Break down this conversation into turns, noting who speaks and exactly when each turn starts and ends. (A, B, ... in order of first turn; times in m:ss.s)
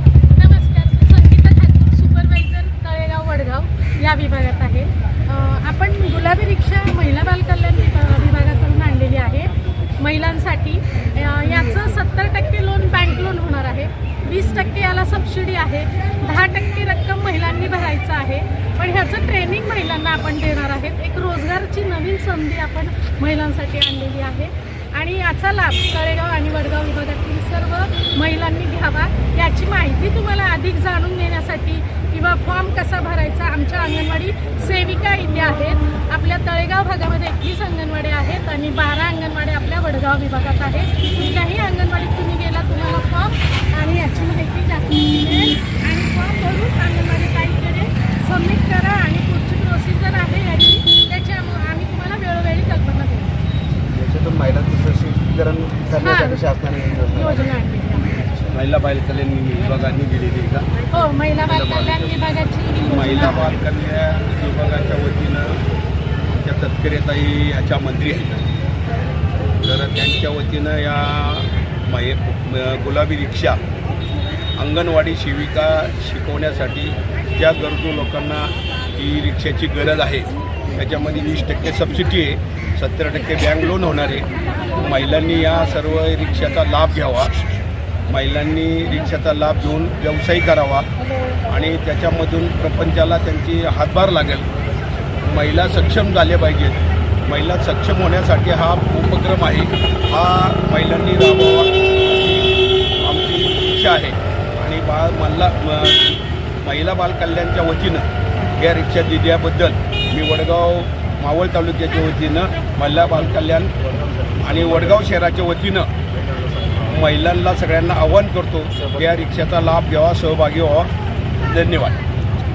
0:00.3-0:53.4 A
0:53.9-0:57.5 B
0:55.9-0:56.5 A
0:57.1-0:58.1 A
0:58.1-0:58.5 B
0:58.5-1:00.7 C
1:00.9-1:03.5 A
1:01.5-1:02.2 B
1:02.8-1:05.6 C
1:06.3-1:08.4 C
1:09.6-1:13.6 C
1:14.6-1:27.3 C
1:28.1-1:30.9 C
1:31.5-1:34.5 C
1:35.2-1:53.7 C
1:53.9-1:55.0 B
1:54.4-1:55.9 C
1:56.2-1:56.9 B
1:56.9-2:02.0 C